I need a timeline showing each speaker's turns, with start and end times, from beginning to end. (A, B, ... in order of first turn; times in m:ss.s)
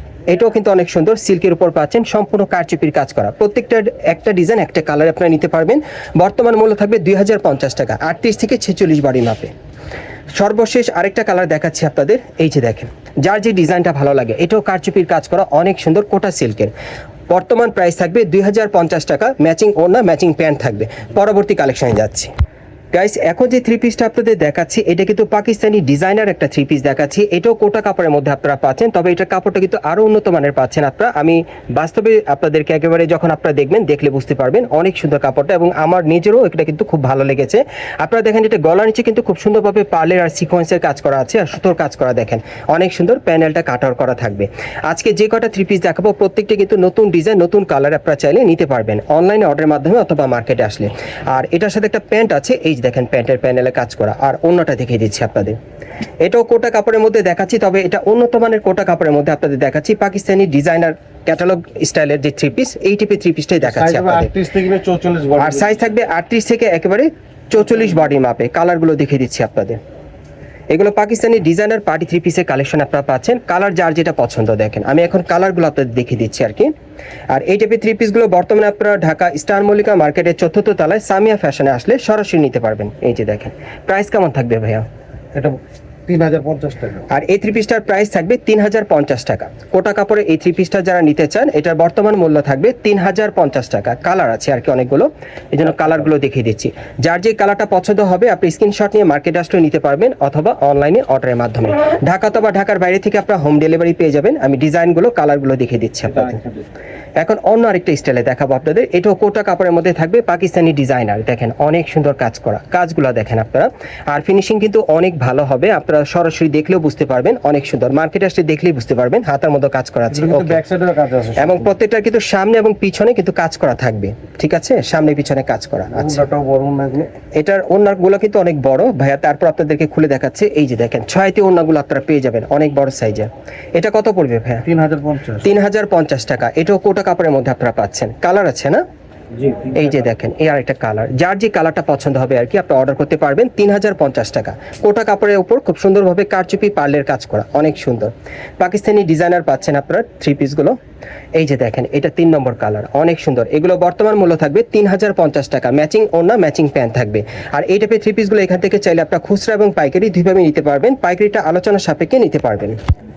0:00.3-0:09.5 A
0:10.4-0:16.7 A
0:17.3-0:22.3 A
0:22.9-0:55.6 A
0:56.2-1:04.3 A
1:03.6-1:05.8 B
1:05.4-1:09.8 A
1:10.7-1:16.7 A
1:17.3-1:24.9 A
1:25.3-1:27.1 B
1:27.1-1:46.4 A
1:47.2-2:00.6 A
2:00.1-2:01.6 B
2:01.4-2:06.2 A
2:05.9-2:07.1 B
2:07.4-2:14.7 A
2:14.7-2:15.5 B
2:15.4-2:18.8 A
2:19.4-2:19.8 B
2:19.8-2:30.8 A
2:31.4-2:42.8 A